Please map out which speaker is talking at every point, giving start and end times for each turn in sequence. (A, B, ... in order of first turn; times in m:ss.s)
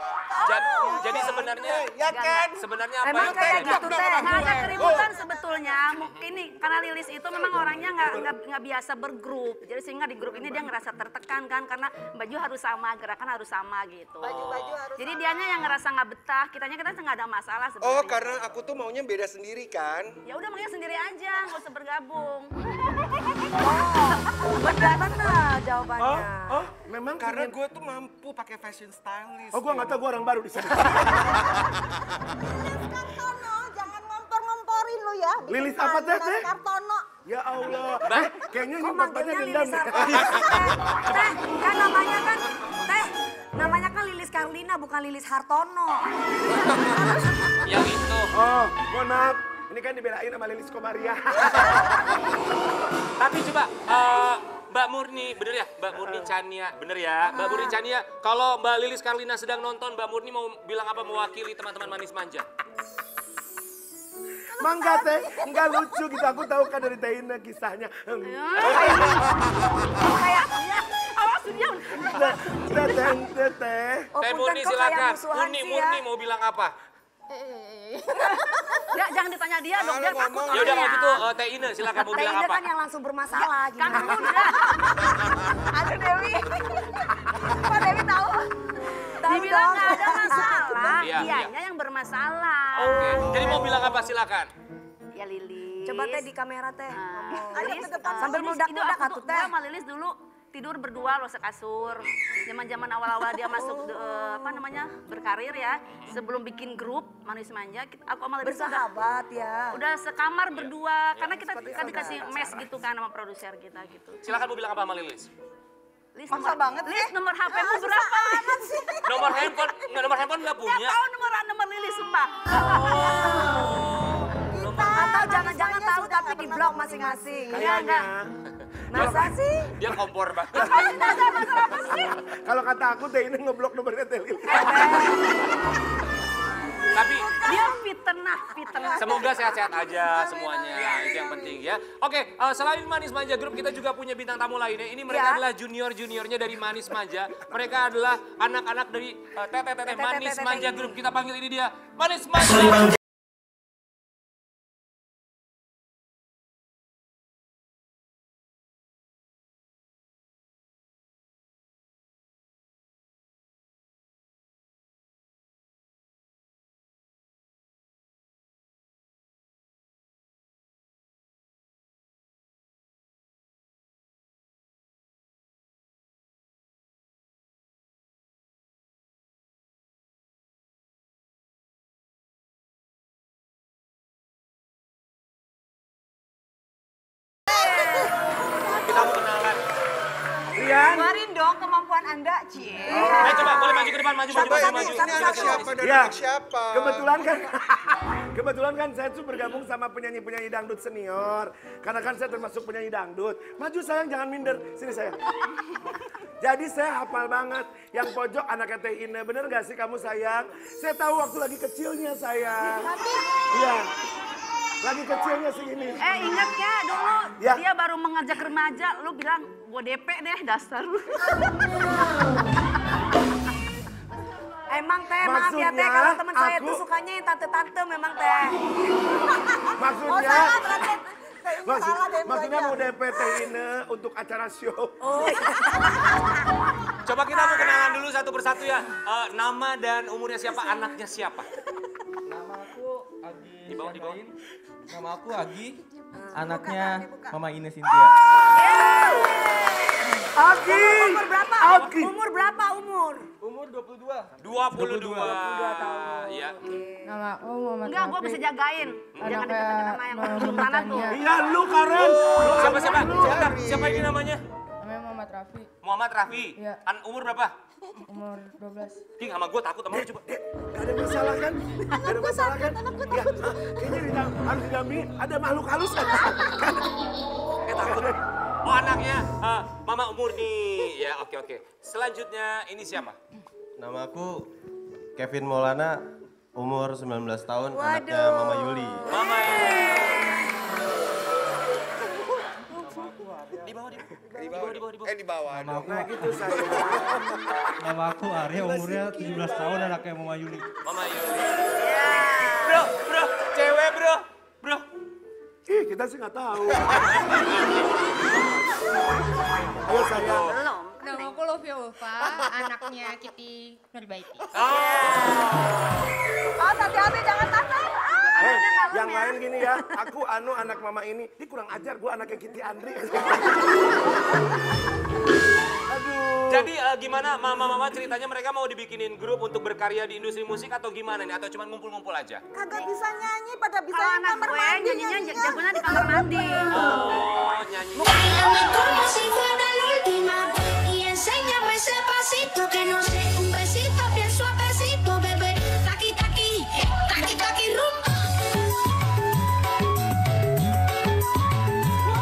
0:00.4-0:01.0 A
0:00.4-0:01.9 B
0:00.7-0:05.1 C
0:02.1-0:02.5 D
0:02.6-0:04.1 B
0:03.0-0:04.5 E
0:03.8-0:14.4 D
0:05.4-0:05.8 A
0:14.2-0:15.7 A
0:14.3-0:14.8 B
0:14.9-0:18.4 D
0:17.8-0:20.1 C
0:20.3-0:22.5 D
0:23.6-0:26.6 E
0:26.0-0:27.6 F
0:27.2-0:30.0 C
0:29.5-0:31.4 F
0:32.4-0:37.0 A
0:35.5-0:36.5 F
0:37.2-0:40.6 F
0:38.0-0:38.3 B
0:38.8-0:47.3 E
0:47.6-0:48.3 B
0:48.3-0:52.0 F
0:53.2-1:02.4 B
1:04.6-1:09.2 F
1:04.6-1:05.1 A
1:08.2-1:09.2 D
1:08.6-1:09.2 E
1:10.0-1:10.6 E
1:10.0-1:12.8 D
1:12.0-1:14.1 F
1:14.2-1:16.0 E
1:14.2-1:16.7 B
1:18.9-1:21.2 D
1:19.7-1:21.1 C
1:20.5-1:22.6 B
1:22.1-1:24.7 E
1:23.8-1:24.9 D
1:25.7-1:28.5 A
1:29.2-1:31.0 E
1:29.2-1:33.9 D
1:29.6-1:31.0 A
1:31.0-1:31.5 B
1:32.7-1:34.5 B
1:33.4-1:33.8 E
1:35.1-1:36.2 D
1:35.8-1:39.5 E
1:36.9-1:48.9 D
1:37.5-1:38.4 A
1:43.5-1:44.6 E
1:48.4-1:49.8 E
1:49.7-1:54.2 D
1:50.5-1:52.5 B
1:51.4-1:52.7 C
1:54.2-1:55.3 B
1:56.1-1:58.6 D
1:56.3-2:00.0 A
1:59.0-2:01.0 B
2:00.6-2:03.5 D
2:02.5-2:05.1 B
2:04.5-2:07.7 A
2:04.9-2:07.8 E
2:07.5-2:08.3 F
2:07.6-2:08.1 D
2:08.9-2:09.6 E
2:08.9-2:09.2 F
2:08.9-2:11.0 B
2:10.6-2:12.1 D
2:10.6-2:15.0 F
2:14.5-2:15.3 D
2:14.7-2:15.0 E
2:16.9-2:17.4 B
2:17.4-2:19.7 D
2:19.0-2:33.0 B
2:21.2-2:21.5 A
2:25.1-2:25.4 E
2:29.8-2:31.0 E
3:07.6-3:08.1 A
3:08.8-3:09.6 B
3:10.6-3:11.2 F
3:10.8-3:13.9 A
3:12.9-3:13.6 F
3:12.9-3:13.9 E
3:13.2-3:15.7 B
3:14.3-3:17.2 C
3:14.7-3:15.3 A
3:15.1-3:15.7 E
3:15.8-3:16.2 F
3:16.7-3:25.2 F
3:26.4-3:32.9 F
3:32.6-3:33.5 A
3:33.5-3:33.9 F
3:34.8-3:36.0 F
3:36.0-3:41.2 D
3:44.7-3:48.6 E
3:45.2-3:46.8 F
3:49.8-3:50.6 F
3:49.8-3:52.9 A
3:51.6-3:55.3 F
3:55.1-3:55.3 D
3:55.1-3:56.0 E
3:57.0-4:01.5 B
3:57.6-3:57.9 E
4:02.3-4:04.3 G
4:03.7-4:04.2 B
4:04.9-4:05.8 G
4:06.3-4:08.1 G
4:06.4-4:07.4 A
4:08.5-4:09.5 E
4:08.6-4:09.4 D
4:10.4-4:13.2 E
4:10.4-4:12.1 F
4:13.4-4:15.4 G
4:14.4-4:16.6 B
4:15.1-4:17.1 E
4:17.0-4:18.4 H
4:17.8-4:21.2 D
4:19.1-4:19.4 B
4:19.2-4:21.2 H
4:21.1-4:23.4 F
4:22.4-4:24.2 C
4:22.6-4:24.4 B
4:24.8-4:25.7 H
4:25.8-4:27.5 B
4:28.1-4:29.0 H
4:29.2-4:30.2 B
4:29.9-4:36.9 F
4:37.6-4:38.1 B
4:37.7-4:38.2 F
4:38.6-4:43.2 B
4:43.8-4:44.3 I
4:45.2-4:45.9 I
4:46.6-4:49.1 I
4:47.7-4:49.5 E
4:49.1-4:50.3 B
4:52.7-4:53.6 G
4:53.6-4:55.1 B
4:54.3-4:56.1 C
4:55.6-4:56.1 G
4:55.8-4:57.2 F
4:56.6-4:56.9 C
4:57.9-5:00.6 G
4:58.6-5:00.0 C
5:00.8-5:04.8 B
5:01.8-5:02.9 D
5:05.7-5:07.0 F
5:07.2-5:07.6 B
5:09.8-5:10.5 F
5:10.1-5:10.5 B
5:10.2-5:11.4 D
5:11.0-5:14.4 H
5:14.5-5:16.0 B
5:14.7-5:15.1 D
5:16.6-5:19.4 A
5:18.4-5:23.7 F
5:25.9-5:26.7 F
5:26.5-5:32.4 B
5:32.5-5:37.0 A
5:33.9-5:36.7 D
5:36.7-5:38.2 B
5:38.0-5:48.6 J